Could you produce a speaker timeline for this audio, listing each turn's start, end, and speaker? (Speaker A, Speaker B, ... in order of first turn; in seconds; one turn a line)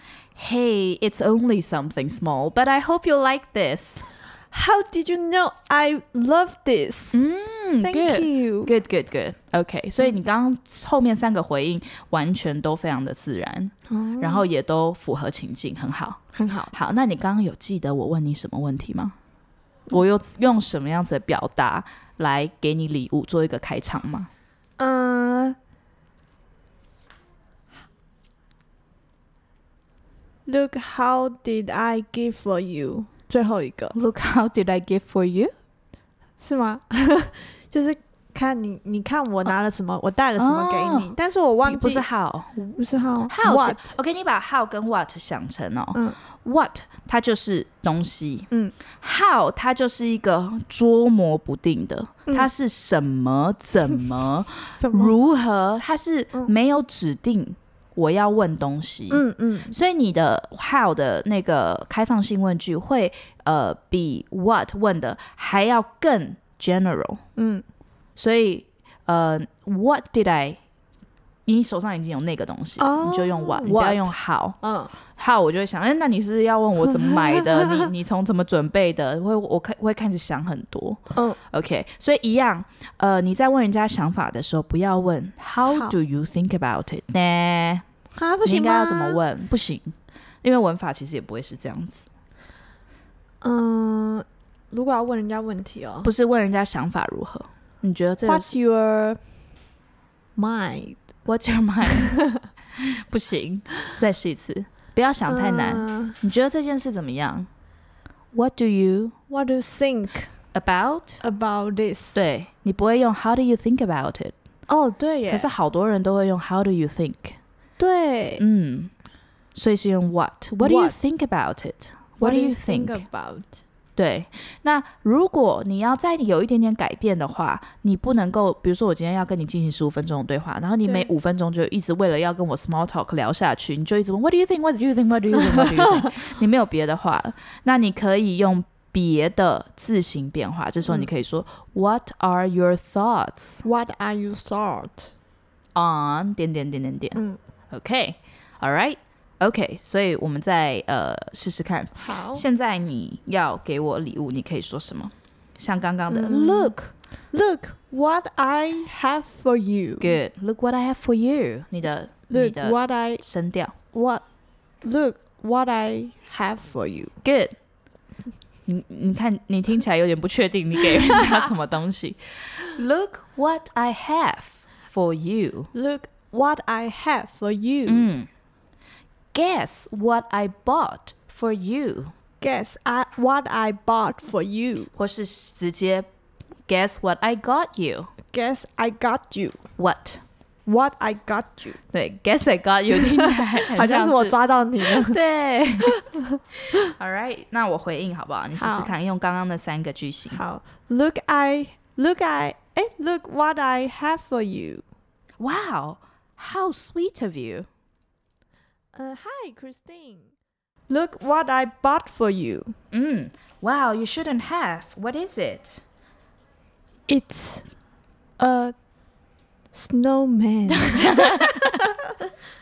Speaker A: 0.3-4.1
Speaker B: 4.5-7.2
Speaker A: 7.1-19.2
Speaker B: 7.8-8.7
Speaker B: 13.9-14.4
Speaker B: 16.4-16.7
Speaker A: 19.9-24.3
Speaker B: 24.8-25.6
Speaker B: 30.5-34.0
Speaker A: 33.9-35.5
Speaker B: 36.4-42.1
Speaker A: 40.4-41.1
Speaker A: 41.6-48.5
Speaker B: 42.8-44.0
Speaker A: 49.0-67.2
Speaker B: 54.8-55.1
Speaker B: 59.1-59.8
Speaker B: 67.4-67.6
Speaker A: 68.2-70.6
Speaker A: 71.5-87.8
Speaker B: 72.8-74.9
Speaker B: 81.1-81.4
Speaker B: 85.7-86.0
Speaker B: 88.1-89.2
Speaker A: 88.4-92.1
Speaker B: 93.4-96.1
Speaker A: 96.0-98.5
Speaker B: 98.2-99.4
Speaker B: 100.4-101.0
Speaker A: 101.2-107.5
Speaker B: 105.3-106.2
Speaker A: 108.3-109.2
Speaker B: 109.3-110.4
Speaker A: 110.5-111.2
Speaker B: 111.2-112.2
Speaker A: 112.1-114.3
Speaker B: 114.7-115.5
Speaker A: 115.3-117.4
Speaker B: 117.8-118.4
Speaker A: 118.4-118.9
Speaker A: 119.5-123.0
Speaker B: 120.6-121.0
Speaker B: 122.2-123.6
Speaker A: 124.0-143.6
Speaker B: 143.6-145.1
Speaker A: 145.8-156.9
Speaker B: 147.2-147.4
Speaker B: 152.0-152.4
Speaker B: 156.1-160.2
Speaker A: 160.0-163.7
Speaker B: 162.3-163.2
Speaker B: 163.9-164.2
Speaker B: 164.8-167.1
Speaker A: 167.2-167.6
Speaker A: 168.7-175.7
Speaker B: 175.7-178.1
Speaker A: 177.9-178.3
Speaker A: 179.3-182.1
Speaker B: 182.4-184.9
Speaker A: 184.9-186.1
Speaker A: 186.7-188.1
Speaker B: 188.3-189.6
Speaker A: 189.8-190.2
Speaker B: 190.7-191.8
Speaker A: 191.9-196.0
Speaker B: 193.3-195.2
Speaker A: 196.8-200.4
Speaker B: 198.6-198.9
Speaker B: 200.3-204.8
Speaker A: 205.4-207.7
Speaker B: 208.9-210.3
Speaker B: 210.9-212.7
Speaker A: 212.9-215.8
Speaker B: 217.1-217.7
Speaker B: 218.4-218.8
Speaker B: 219.7-221.3
Speaker A: 220.8-221.8